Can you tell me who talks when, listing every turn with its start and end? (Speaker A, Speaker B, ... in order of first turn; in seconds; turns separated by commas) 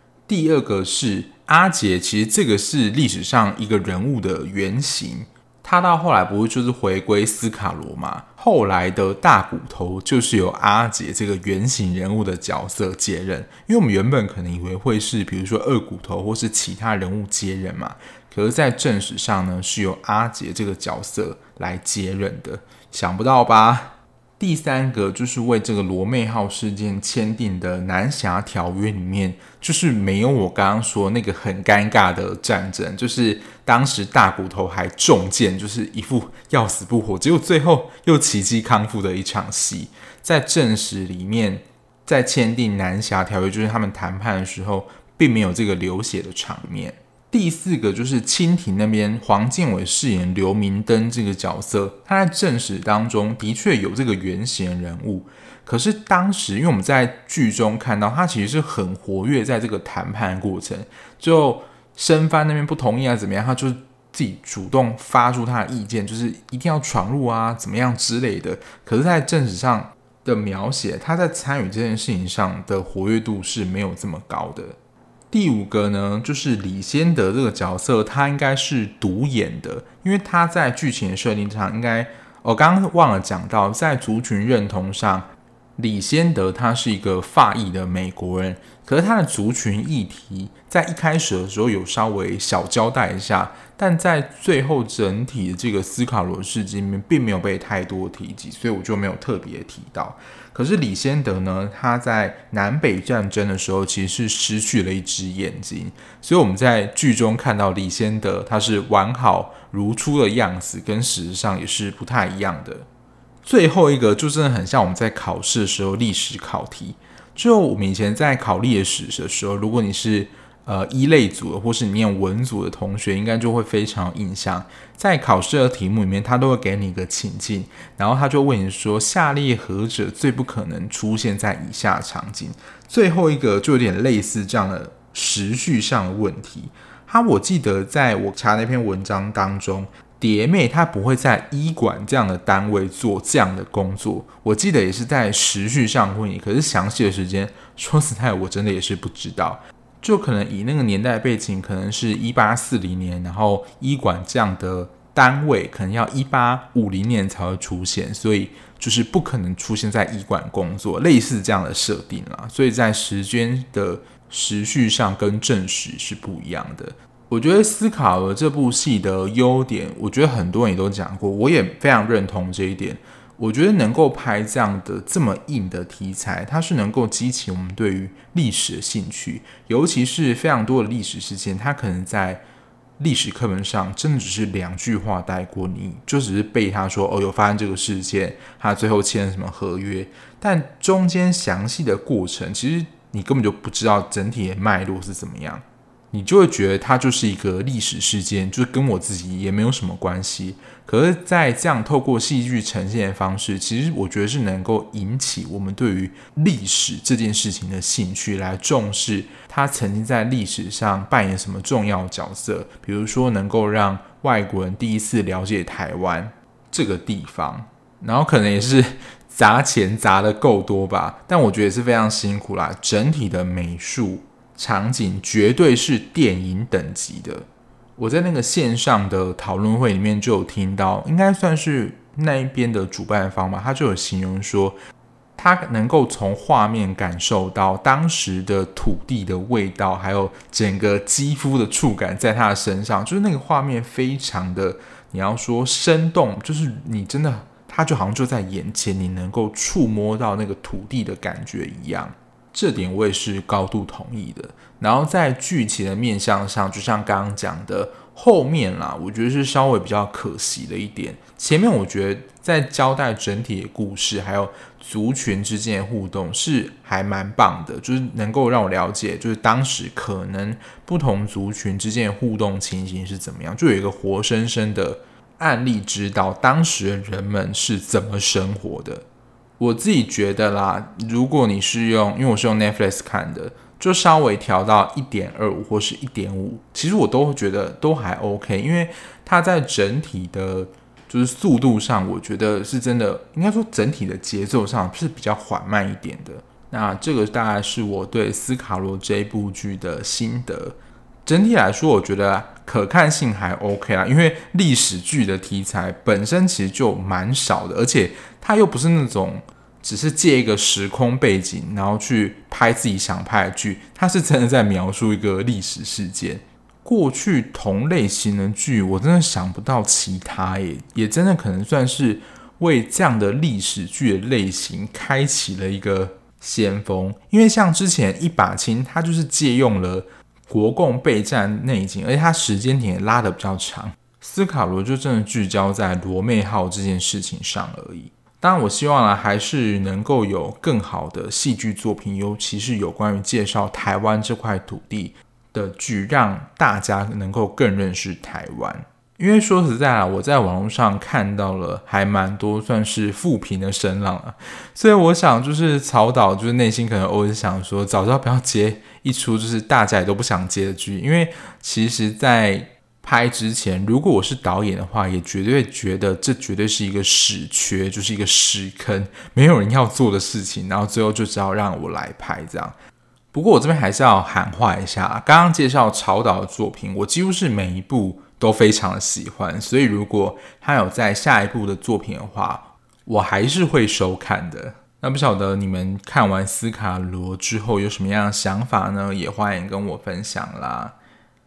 Speaker A: 0.3-74.8, Speaker A: 75.3-112.9, Speaker A: 113.4-182.4, Speaker A: 183.0-234.8, Speaker A: 235.4-279.0, Speaker A: 279.6-372.7, Speaker A: 373.3-390.9